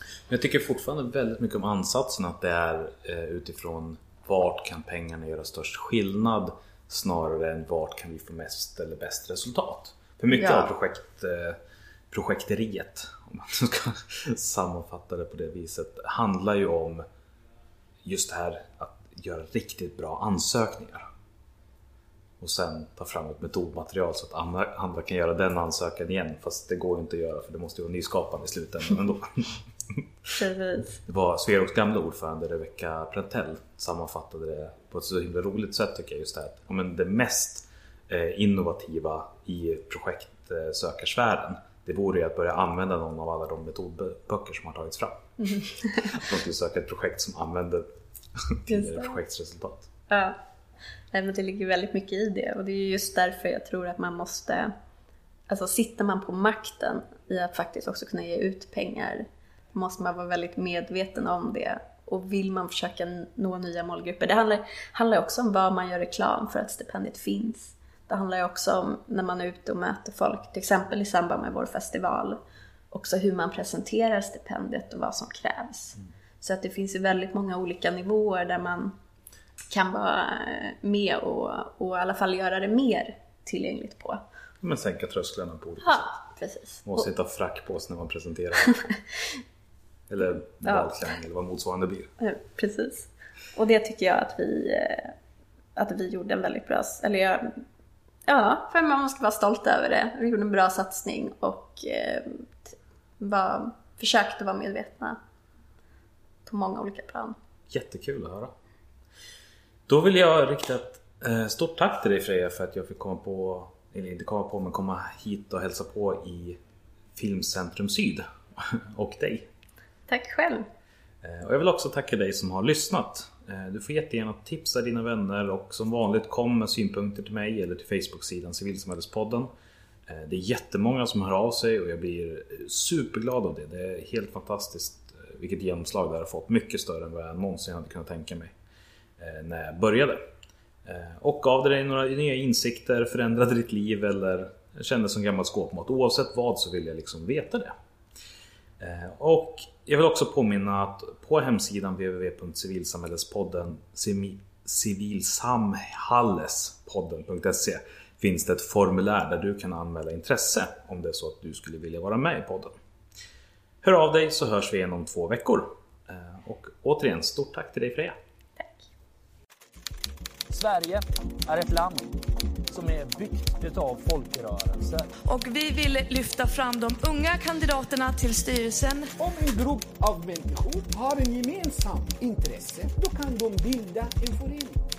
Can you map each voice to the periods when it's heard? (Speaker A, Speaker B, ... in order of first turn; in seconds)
Speaker A: 0.3-11.6, 12.1-17.0, 18.0-21.0, 22.4-30.0, 31.1-45.2, 46.0-49.9, 84.6-86.2, 86.8-88.8, 90.1-92.1, 107.7-108.5, 109.9-116.6, 117.1-119.5, 121.2-129.5, 130.1-138.5, 139.2-140.2, 140.8-147.7, 148.8-162.7, 163.8-168.2
Speaker B: 10.3-10.7, 30.3-31.0, 45.5-46.0, 48.7-49.1, 50.1-50.4, 51.1-54.7, 55.5-72.4, 72.9-78.9, 79.7-84.2, 85.8-87.1, 90.6-91.1, 92.2-95.1, 95.8-97.6, 98.3-105.2, 106.4-107.3, 120.1-120.7, 168.6-168.8
Speaker C: 170.5-172.2, 172.7-175.1
Speaker D: 175.2-179.1
Speaker E: 179.2-184.8